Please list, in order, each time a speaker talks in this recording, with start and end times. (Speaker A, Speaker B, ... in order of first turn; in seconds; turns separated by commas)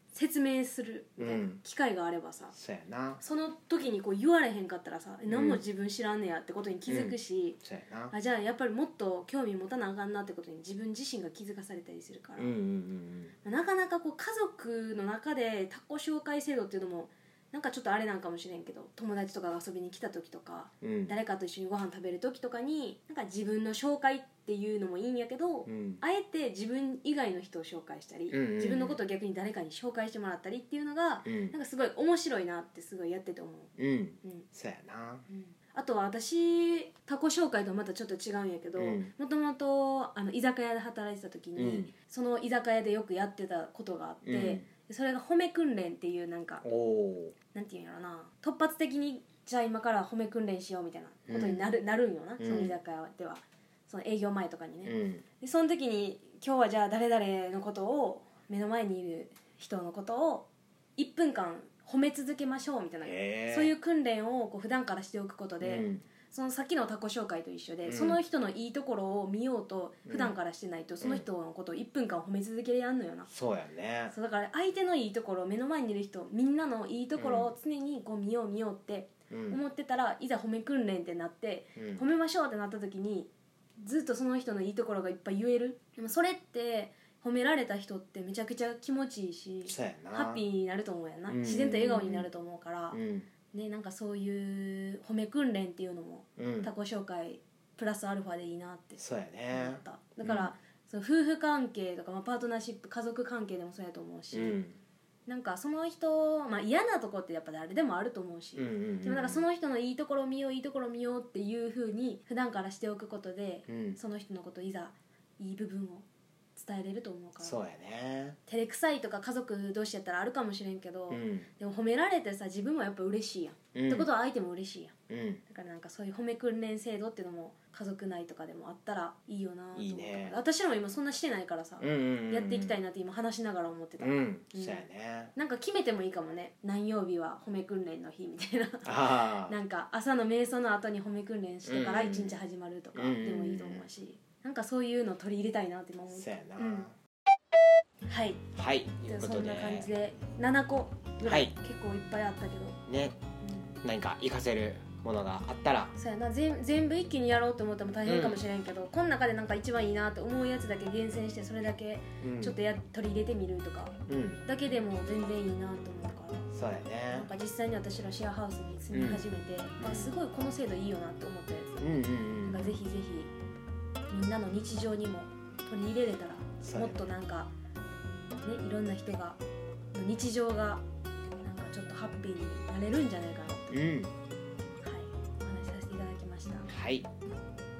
Speaker A: 0.1-2.5, Speaker B: 1.2-1.6, Speaker B: 2.5-3.2, Speaker A: 3.2-7.6, Speaker B: 5.3-5.6, Speaker B: 6.9-8.1, Speaker A: 8.1-12.5, Speaker B: 12.3-13.3, Speaker A: 13.4-33.7, Speaker B: 20.8-21.1, Speaker B: 25.6-26.0, Speaker B: 28.3-29.0, Speaker B: 31.2-31.6, Speaker B: 33.8-35.2, Speaker A: 35.3-46.6, Speaker B: 38.8-39.1, Speaker B: 41.5-41.9, Speaker B: 44.2-44.6, Speaker B: 46.6-47.3, Speaker A: 47.5-73.3, Speaker B: 51.3-51.7, Speaker B: 52.4-52.8, Speaker B: 54.8-55.2, Speaker B: 63.0-63.7, Speaker B: 65.6-66.0, Speaker B: 67.8-68.2, Speaker B: 70.1-70.3, Speaker B: 71.0-71.3, Speaker B: 73.3-74.1, Speaker A: 74.1-93.0, Speaker B: 77.2-77.5, Speaker B: 79.3-79.6, Speaker B: 81.8-82.0, Speaker B: 89.6-90.4, Speaker B: 91.3-92.3, Speaker B: 92.9-93.3, Speaker A: 93.5-104.6, Speaker B: 96.4-96.7, Speaker B: 99.0-100.5, Speaker B: 104.3-104.8, Speaker A: 105.3-117.6, Speaker B: 108.6-109.5, Speaker B: 113.7-114.0, Speaker B: 117.4-118.4, Speaker A: 118.5-124.9, Speaker B: 121.1-121.5, Speaker B: 123.7-124.1, Speaker B: 125.1-125.4, Speaker A: 125.5-146.9, Speaker B: 129.7-130.4, Speaker B: 131.8-132.8, Speaker B: 134.0-135.3, Speaker B: 138.8-139.6, Speaker B: 141.6-142.4, Speaker B: 142.9-143.9, Speaker B: 146.1-146.9, Speaker A: 148.1-148.4, Speaker B: 148.5-149.9, Speaker A: 149.0-152.8, Speaker B: 151.2-151.5, Speaker B: 152.9-153.2, Speaker A: 153.4-153.8, Speaker B: 153.8-155.9, Speaker A: 155.9-166.5, Speaker B: 158.0-158.4, Speaker B: 162.2-162.6, Speaker B: 164.1-164.4, Speaker B: 166.5-167.3, Speaker A: 167.1-171.9, Speaker B: 168.9-169.3, Speaker B: 169.8-170.1, Speaker B: 171.8-172.8, Speaker A: 172.4-173.3, Speaker A: 174.1-177.5, Speaker B: 176.6-177.1, Speaker A: 178.3-179.4, Speaker A: 179.9-180.8, Speaker A: 181.4-183.9, Speaker B: 183.7-184.1, Speaker A: 184.8-186.7, Speaker B: 186.7-187.1